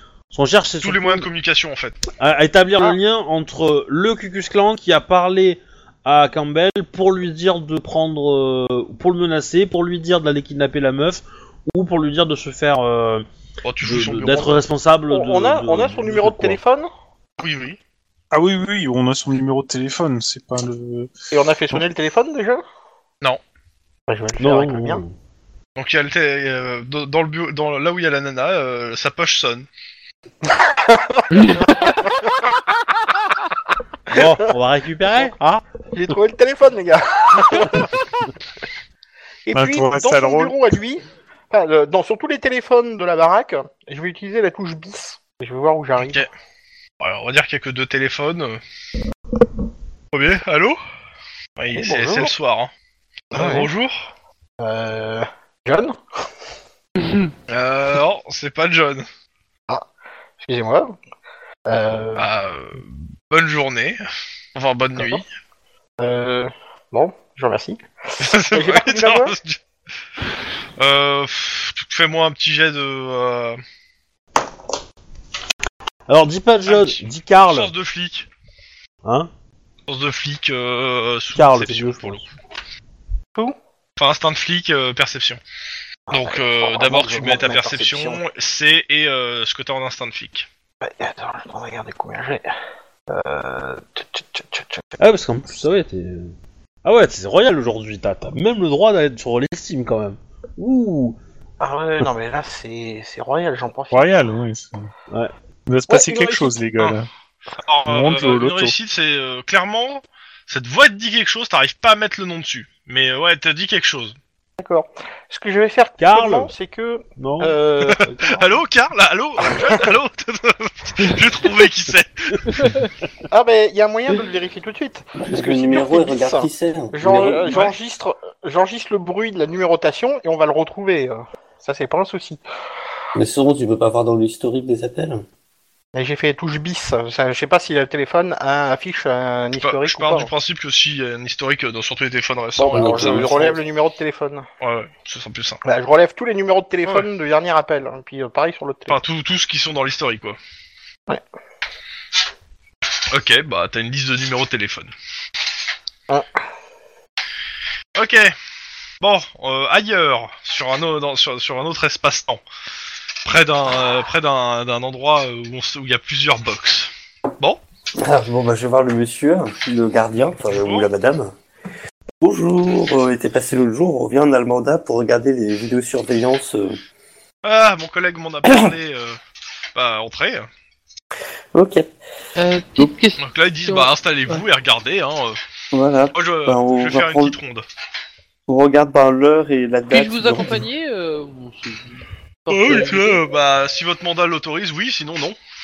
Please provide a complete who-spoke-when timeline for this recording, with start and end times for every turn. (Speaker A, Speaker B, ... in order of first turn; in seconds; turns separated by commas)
Speaker A: 0.3-1.3, Speaker B: 0.8-2.0, Speaker A: 2.2-13.2, Speaker B: 13.6-14.6, Speaker A: 13.8-16.6, Speaker C: 15.1-16.9, Speaker B: 17.4-17.8, Speaker D: 18.3-21.1, Speaker C: 21.3-22.6, Speaker C: 24.1-25.0, Speaker A: 24.4-25.1, Speaker B: 25.8-29.7, Speaker C: 30.4-32.7, Speaker E: 31.3-31.7, Speaker C: 34.1-34.5, Speaker A: 34.1-35.6, Speaker C: 35.9-38.2, Speaker C: 39.5-46.2, Speaker D: 39.5-40.5, Speaker B: 46.0-46.3, Speaker B: 47.0-48.6, Speaker B: 50.1-50.8, Speaker B: 51.6-52.7, Speaker C: 51.7-52.3, Speaker C: 53.3-53.7, Speaker B: 53.3-54.1, Speaker C: 54.6-56.0, Speaker E: 57.0-57.3, Speaker B: 57.5-59.1, Speaker C: 60.4-61.0, Speaker C: 61.7-62.3, Speaker B: 62.1-64.0, Speaker B: 64.5-65.2, Speaker C: 65.0-65.2, Speaker C: 66.0-67.8, Speaker B: 68.2-69.6, Speaker C: 68.5-69.3, Speaker B: 70.8-73.6, Speaker A: 76.1-77.7, Speaker B: 76.7-78.3, Speaker A: 79.0-79.3, Speaker B: 79.9-82.3, Speaker A: 81.3-82.2, Speaker B: 84.0-85.4, Speaker C: 86.1-88.2, Speaker B: 86.1-90.5, Speaker C: 90.8-92.5, Speaker C: 93.1-95.0, Speaker A: 95.0-96.3, Speaker A: 96.8-101.2, Speaker C: 101.6-104.1, Speaker D: 103.9-104.9, Speaker D: 105.7-107.1, Speaker C: 105.9-106.6, Speaker B: 107.6-114.2, Speaker D: 107.9-108.7, Speaker C: 114.6-118.4, Speaker A: 116.0-116.5, Speaker A: 117.2-118.4, Speaker B: 117.9-122.8, Speaker C: 119.4-119.9, Speaker E: 122.6-122.9, Speaker C: 123.3-132.4, Speaker F: 125.2-127.6, Speaker B: 127.3-127.7, Speaker F: 133.1-135.2, Speaker C: 135.9-140.3, Speaker B: 139.6-143.6, Speaker F: 142.6-143.6, Speaker C: 142.6-144.4, Speaker B: 144.6-145.6, Speaker C: 145.6-149.0, Speaker B: 148.9-150.4, Speaker B: 153.1-154.9, Speaker B: 157.9-158.3, Speaker B: 159.0-162.4, Speaker B: 163.2-167.6, Speaker F: 168.0-171.3, Speaker B: 170.4-170.9, Speaker F: 172.2-176.8, Speaker B: 177.4-179.2, Speaker B: 179.7-180.5, Speaker F: 181.5-181.9, Speaker E: 182.4-184.4, Speaker B: 183.2-185.4, Speaker F: 185.7-187.4, Speaker B: 186.1-187.6, Speaker F: 188.5-190.7, Speaker E: 189.9-193.2, Speaker B: 192.5-195.4